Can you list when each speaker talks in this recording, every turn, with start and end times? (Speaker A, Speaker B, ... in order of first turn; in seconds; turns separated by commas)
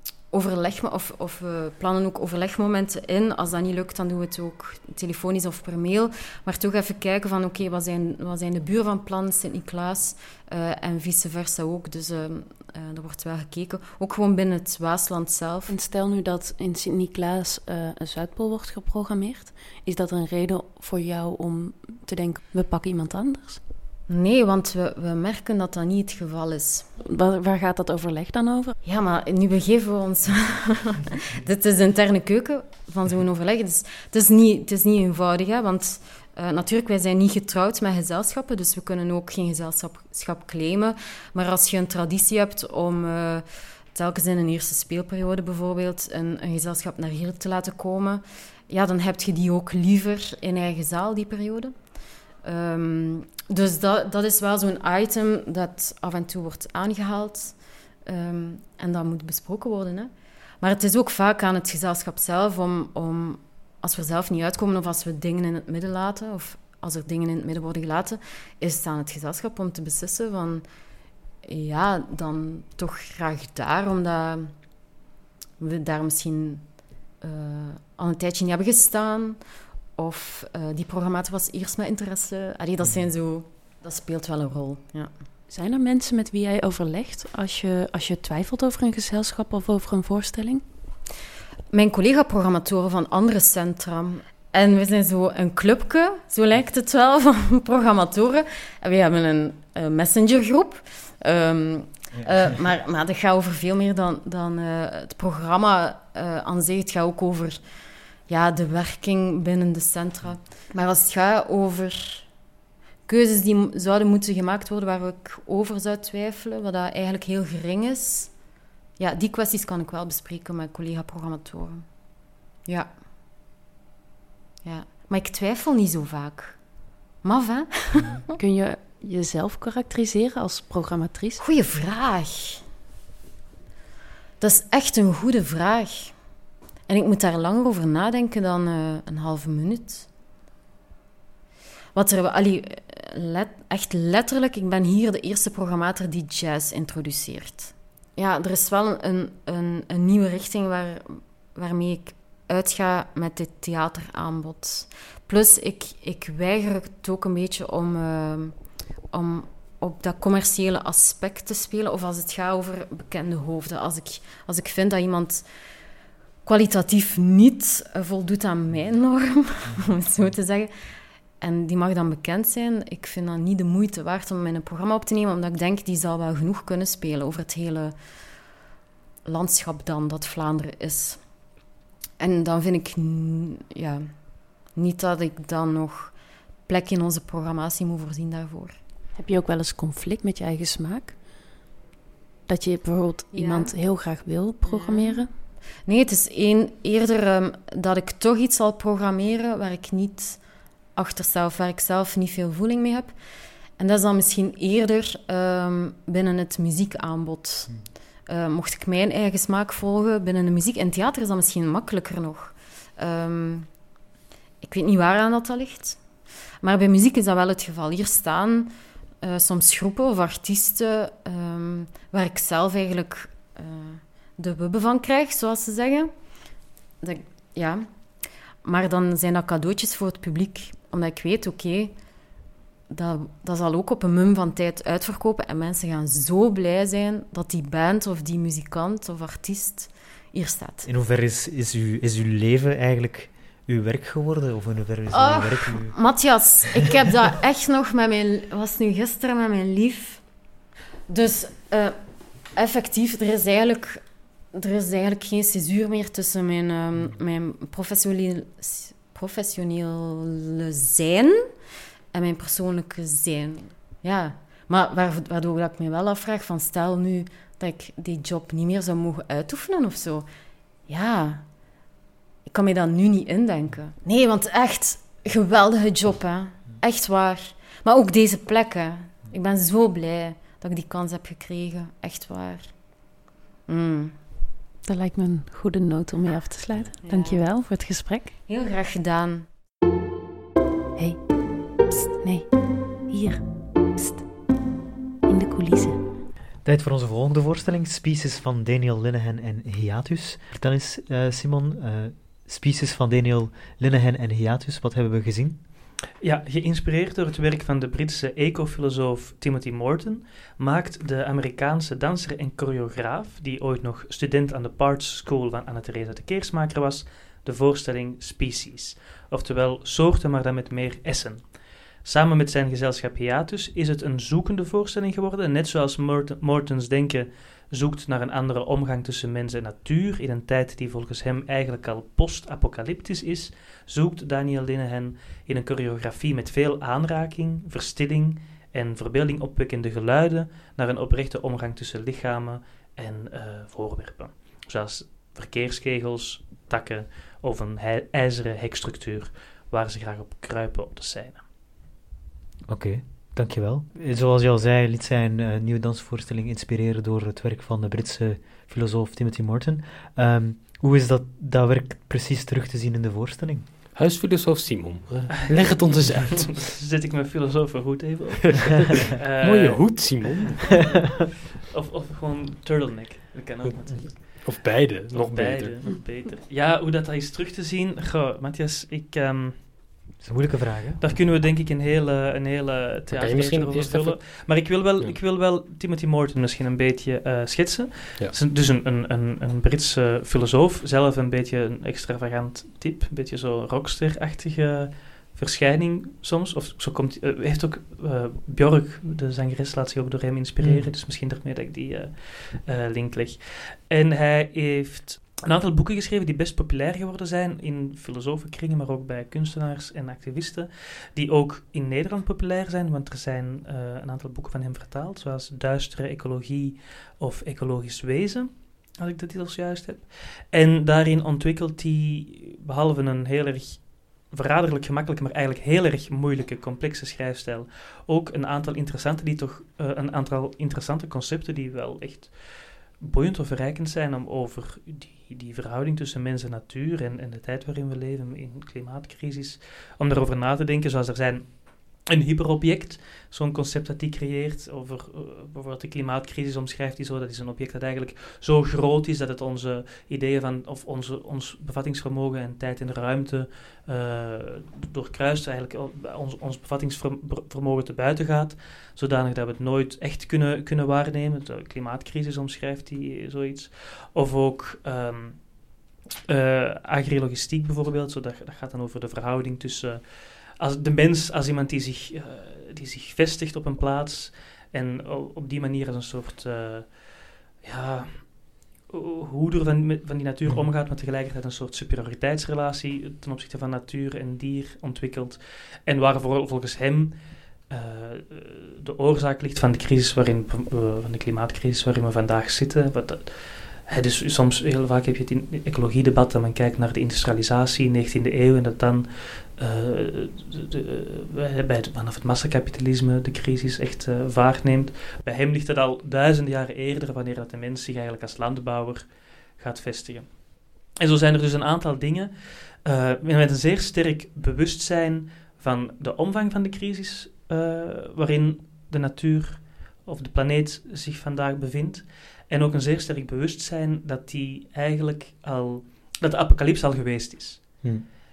Speaker A: 0.3-15.7, Speaker B: 15.7-23.6, Speaker A: 24.1-26.9, Speaker B: 27.0-28.8, Speaker A: 28.8-51.8, Speaker A: 52.4-70.6, Speaker A: 71.4-74.5, Speaker A: 75.6-76.7, Speaker A: 77.2-79.4, Speaker A: 80.0-85.1, Speaker C: 82.8-83.1, Speaker B: 85.5-90.6, Speaker A: 91.7-107.6, Speaker A: 108.3-112.3, Speaker A: 113.1-118.4, Speaker A: 119.0-121.8, Speaker A: 122.7-122.9, Speaker A: 124.6-126.6, Speaker A: 127.2-128.2, Speaker C: 128.0-128.2, Speaker B: 128.4-131.4, Speaker A: 131.4-132.6, Speaker A: 134.4-136.2, Speaker A: 136.9-140.1, Speaker A: 141.9-158.6, Speaker A: 159.1-165.5, Speaker A: 166.4-170.7, Speaker A: 171.4-177.9, Speaker A: 179.2-181.3, Speaker A: 182.2-188.8, Speaker B: 189.2-191.2, Speaker B: 192.5-195.3, Speaker A: 193.3-193.7, Speaker A: 194.6-195.2, Speaker A: 195.9-200.4, Speaker A: 200.9-203.1, Speaker A: 203.8-213.7, Speaker A: 214.6-216.0, Speaker A: 216.6-226.1, Speaker A: 227.0-227.9, Speaker A: 228.6-231.9, Speaker A: 232.9-240.9, Speaker C: 240.9-246.0, Speaker A: 245.1-250.3, Speaker A: 251.1-252.0, Speaker A: 252.5-261.4, Speaker A: 262.1-270.3, Speaker A: 270.9-271.5, Speaker A: 272.5-282.9, Speaker A: 283.7-284.2, Speaker B: 284.9-288.3, Speaker A: 287.0-287.4, Speaker A: 288.5-289.5, Speaker B: 291.0-294.3, Speaker B: 295.2-296.0, Speaker C: 296.6-305.6, Speaker D: 306.2-321.5, Speaker D: 322.0-351.4, Speaker C: 352.7-363.7, Speaker E: 363.9-366.7, Speaker D: 365.3-371.1, Speaker E: 368.4-371.0, Speaker D: 371.7-374.6, Speaker E: 373.6-376.0, Speaker D: 375.1-379.6, Speaker C: 380.2-381.0, Speaker D: 381.0-465.7, Speaker E: 383.1-384.4, Speaker C: 400.6-400.9, Speaker D: 466.3-487.1, Speaker D: 487.7-527.9, Speaker C: 527.8-528.1